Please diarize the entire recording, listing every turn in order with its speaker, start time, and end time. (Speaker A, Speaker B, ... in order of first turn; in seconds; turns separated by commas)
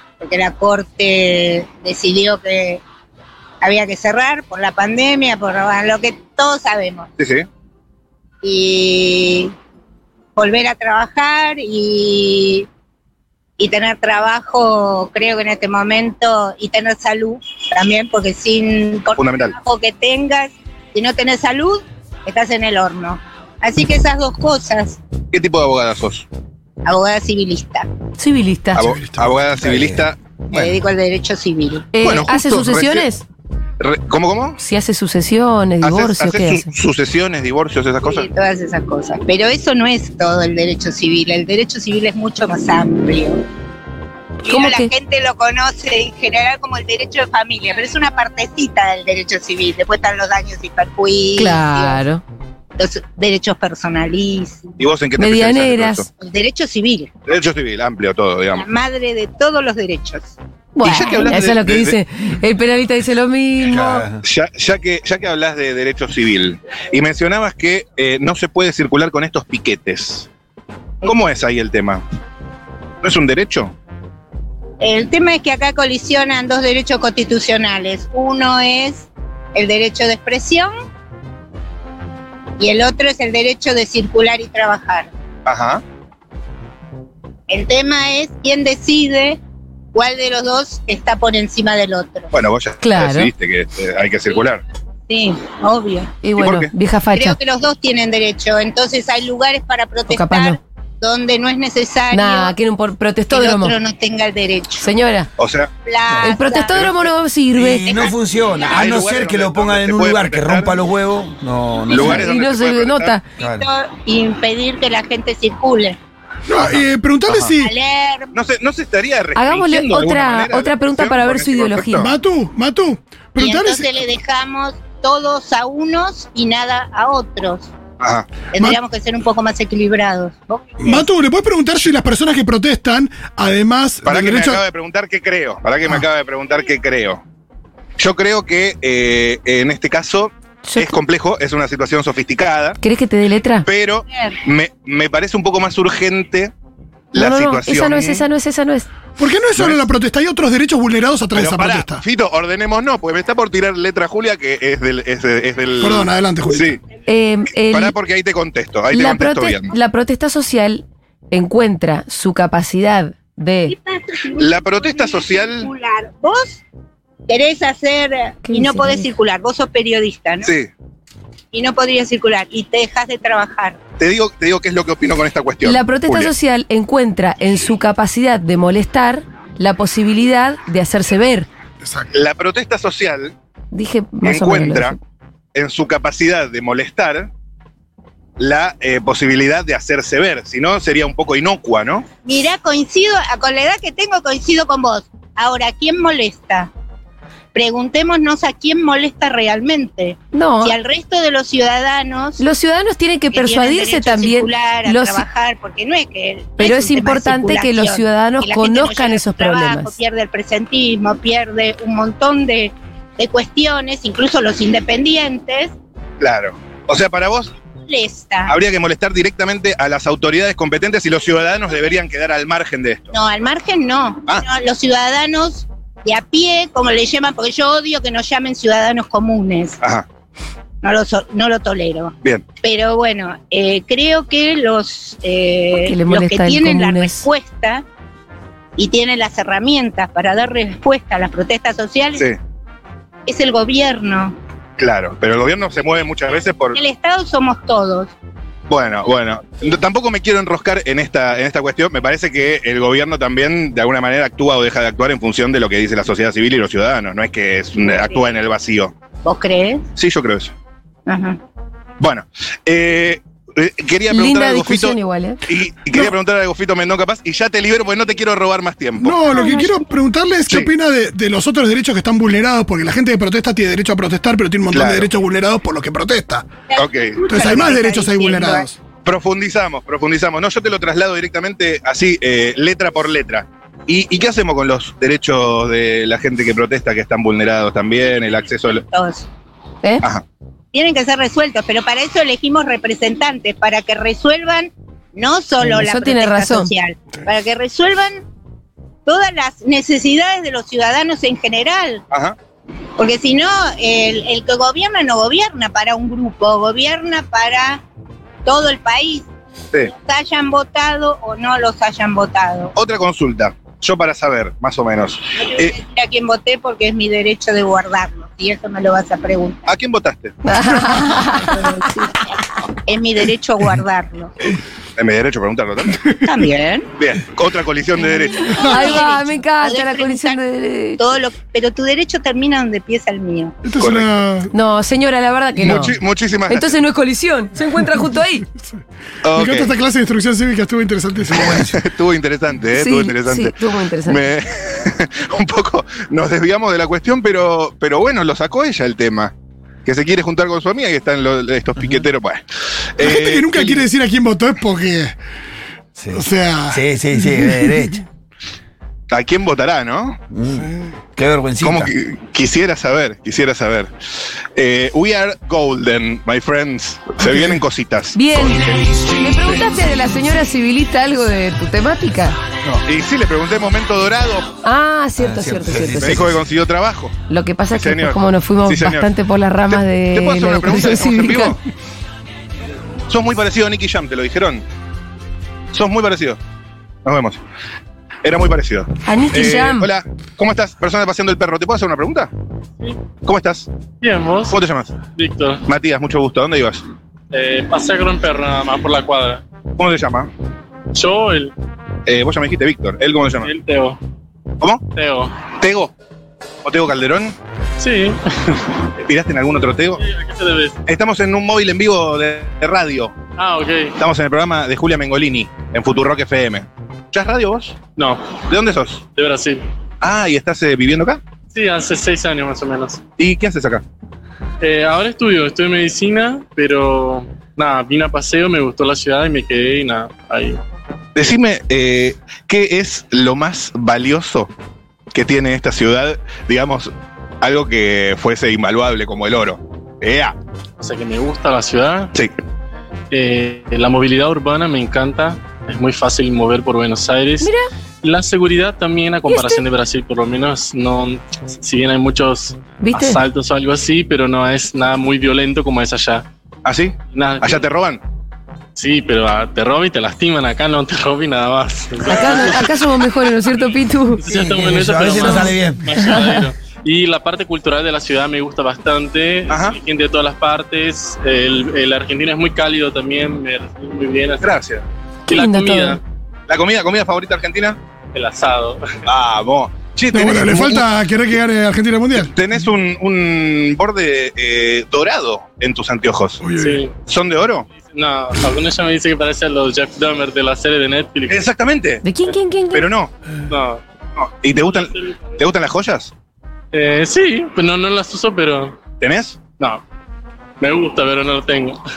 Speaker A: 0.2-2.8, Speaker A: 3.6-7.1, Speaker B: 7.2-7.5, Speaker A: 8.4-9.5, Speaker A: 10.3-12.7, Speaker A: 13.6-25.0, Speaker B: 19.2-19.5, Speaker B: 25.3-26.2, Speaker A: 26.8-27.9, Speaker C: 28.2-28.9, Speaker B: 28.7-30.8, Speaker D: 28.8-29.3, Speaker E: 29.6-30.1, Speaker A: 30.5-31.9, Speaker C: 31.9-33.2, Speaker B: 32.0-33.0, Speaker B: 33.8-34.6, Speaker C: 34.6-36.7, Speaker B: 35.8-38.3, Speaker A: 38.0-43.4, Speaker A: 44.4-52.0, Speaker C: 44.5-44.9, Speaker C: 51.4-52.2, Speaker A: 52.8-54.7, Speaker B: 54.8-56.1, Speaker C: 55.2-56.0, Speaker A: 56.2-57.1, Speaker B: 57.3-58.6, Speaker A: 58.5-60.3, Speaker C: 60.8-64.0, Speaker B: 60.8-62.0, Speaker E: 63.7-64.2, Speaker B: 64.2-70.3, Speaker B: 71.0-72.0, Speaker B: 73.0-73.7, Speaker A: 74.8-80.7, Speaker A: 82.6-85.1, Speaker B: 85.5-85.8, Speaker A: 87.5-89.4, Speaker A: 89.9-92.3, Speaker B: 92.3-94.6, Speaker C: 92.8-93.3, Speaker A: 95.1-96.1, Speaker C: 96.2-97.4, Speaker B: 96.4-96.7, Speaker A: 97.1-102.5, Speaker C: 100.1-100.6, Speaker C: 102.1-103.8, Speaker A: 103.3-104.9, Speaker C: 104.8-105.3, Speaker B: 105.4-105.7, Speaker A: 105.8-106.9, Speaker C: 106.2-108.1, Speaker E: 107.5-112.2, Speaker A: 107.8-108.1, Speaker B: 108.7-110.7, Speaker B: 111.9-113.2, Speaker C: 111.9-113.2, Speaker E: 113.4-113.7, Speaker A: 113.4-116.0, Speaker D: 116.5-117.7, Speaker A: 117.6-118.3, Speaker B: 118.3-122.1, Speaker C: 119.3-122.1, Speaker D: 122.0-123.9, Speaker A: 123.4-127.7, Speaker B: 128.0-128.4, Speaker A: 128.5-131.1, Speaker D: 130.8-134.6, Speaker B: 134.0-137.2, Speaker B: 138.0-142.8, Speaker C: 140.6-141.0, Speaker C: 142.8-143.7, Speaker B: 143.6-146.5, Speaker B: 147.1-148.2, Speaker C: 147.1-148.9, Speaker D: 149.2-152.0, Speaker B: 149.6-149.8, Speaker B: 151.3-156.8, Speaker D: 155.8-156.7, Speaker C: 157.1-157.9, Speaker B: 157.7-159.7, Speaker C: 158.9-163.7, Speaker A: 163.7-166.6, Speaker B: 164.3-165.7, Speaker A: 167.3-170.5, Speaker C: 168.4-169.1, Speaker B: 170.4-170.7, Speaker A: 171.5-173.8, Speaker B: 174.0-176.3, Speaker C: 175.6-181.5, Speaker D: 181.8-182.1, Speaker B: 182.1-183.3, Speaker C: 183.7-185.0, Speaker B: 184.2-184.9, Speaker B: 185.5-187.3, Speaker B: 188.4-192.1, Speaker A: 192.2-196.7, Speaker A: 197.5-202.4, Speaker C: 200.3-200.7, Speaker C: 202.4-205.2, Speaker A: 203.3-215.7, Speaker C: 206.6-209.9, Speaker B: 216.2-217.5, Speaker A: 217.8-218.5, Speaker B: 218.5-223.1, Speaker A: 223.1-229.8, Speaker A: 230.8-237.8, Speaker C: 235.8-237.3, Speaker A: 238.8-242.2, Speaker A: 243.2-244.3, Speaker B: 244.8-246.8, Speaker A: 246.7-248.1, Speaker B: 248.7-258.9, Speaker A: 259.2-259.9, Speaker B: 259.9-260.5, Speaker A: 261.1-261.4, Speaker B: 262.0-269.2, Speaker C: 264.1-265.4, Speaker D: 269.0-276.5, Speaker C: 269.4-269.6, Speaker B: 274.7-275.1, Speaker A: 276.7-278.7, Speaker B: 276.8-277.7, Speaker D: 277.3-278.8, Speaker B: 279.0-288.8, Speaker A: 288.6-289.3, Speaker A: 290.7-298.2, Speaker C: 295.6-296.7, Speaker A: 299.1-302.0, Speaker B: 302.1-302.4, Speaker A: 303.0-307.8, Speaker A: 308.4-309.3, Speaker A: 309.9-312.7, Speaker B: 312.7-315.7, Speaker A: 315.4-319.7, Speaker B: 319.7-320.4, Speaker C: 320.4-321.9, Speaker A: 321.4-322.2, Speaker A: 322.9-324.3, Speaker B: 325.0-326.1, Speaker A: 326.2-326.9, Speaker B: 327.0-328.6, Speaker A: 328.4-330.4, Speaker C: 328.6-331.0, Speaker A: 331.0-333.6, Speaker D: 333.6-334.5, Speaker B: 333.8-334.1, Speaker C: 334.5-335.9, Speaker B: 335.6-336.8, Speaker C: 336.5-338.4, Speaker B: 339.2-339.7, Speaker D: 339.3-341.8, Speaker B: 341.3-349.3, Speaker C: 342.7-344.2, Speaker B: 349.9-352.4, Speaker B: 353.0-353.9, Speaker D: 353.0-355.1, Speaker E: 356.0-358.0, Speaker D: 356.1-357.7, Speaker B: 359.1-360.2, Speaker E: 360.3-361.9, Speaker D: 360.6-360.9, Speaker B: 361.6-363.9, Speaker B: 364.6-369.6, Speaker D: 367.2-367.6, Speaker C: 368.1-372.4, Speaker B: 372.6-374.5, Speaker C: 374.6-376.3, Speaker E: 375.2-376.4, Speaker B: 376.0-377.1, Speaker C: 377.3-381.6, Speaker B: 377.7-379.1, Speaker B: 379.7-381.6, Speaker B: 383.1-384.6, Speaker B: 385.7-386.4, Speaker B: 387.0-387.4, Speaker B: 388.2-392.3, Speaker C: 389.0-389.9, Speaker B: 393.2-393.7, Speaker F: 394.0-394.6, Speaker B: 394.5-394.9, Speaker F: 395.1-395.6, Speaker B: 395.6-396.8, Speaker F: 397.3-399.4, Speaker B: 399.8-400.3, Speaker F: 400.9-401.5, Speaker B: 402.1-403.5, Speaker F: 403.4-404.0, Speaker F: 404.9-405.4, Speaker B: 405.5-405.9, Speaker B: 406.6-407.4, Speaker F: 407.8-408.7, Speaker B: 409.0-410.0, Speaker F: 410.0-410.8, Speaker B: 410.9-413.1, Speaker F: 413.4-413.9, Speaker B: 414.0-417.8, Speaker F: 417.9-418.4, Speaker B: 418.5-419.0, Speaker F: 419.1-419.6, Speaker B: 420.0-421.2, Speaker F: 421.5-423.0, Speaker B: 423.2-423.8, Speaker F: 424.6-430.6, Speaker B: 431.1-434.5, Speaker B: 435.1-440.4, Speaker F: 440.8-442.1, Speaker F: 443.1-447.5, Speaker C: 447.4-447.7, Speaker F: 448.0-456.2, Speaker C: 449.3-449.6, Speaker C: 452.8-453.2, Speaker B: 456.6-458.0, Speaker F: 457.1-457.7, Speaker F: 458.8-462.7, Speaker C: 462.0-464.2, Speaker F: 464.2-474.5, Speaker E: 464.3-465.9, Speaker C: 465.2-466.2, Speaker B: 469.5-469.8, Speaker B: 474.4-474.8, Speaker C: 475.3-476.0, Speaker F: 475.3-476.0, Speaker B: 476.5-477.8, Speaker F: 478.1-478.9, Speaker B: 479.1-480.9, Speaker D: 480.1-482.3, Speaker B: 482.2-486.4, Speaker D: 486.4-486.9, Speaker F: 486.6-486.9, Speaker B: 487.0-487.7, Speaker F: 487.9-491.4, Speaker B: 491.3-492.0, Speaker C: 492.0-492.9, Speaker B: 492.7-493.1, Speaker F: 493.5-493.8, Speaker B: 494.2-496.1, Speaker F: 494.5-495.4, Speaker F: 496.7-498.8, Speaker B: 499.0-499.4, Speaker F: 500.6-501.8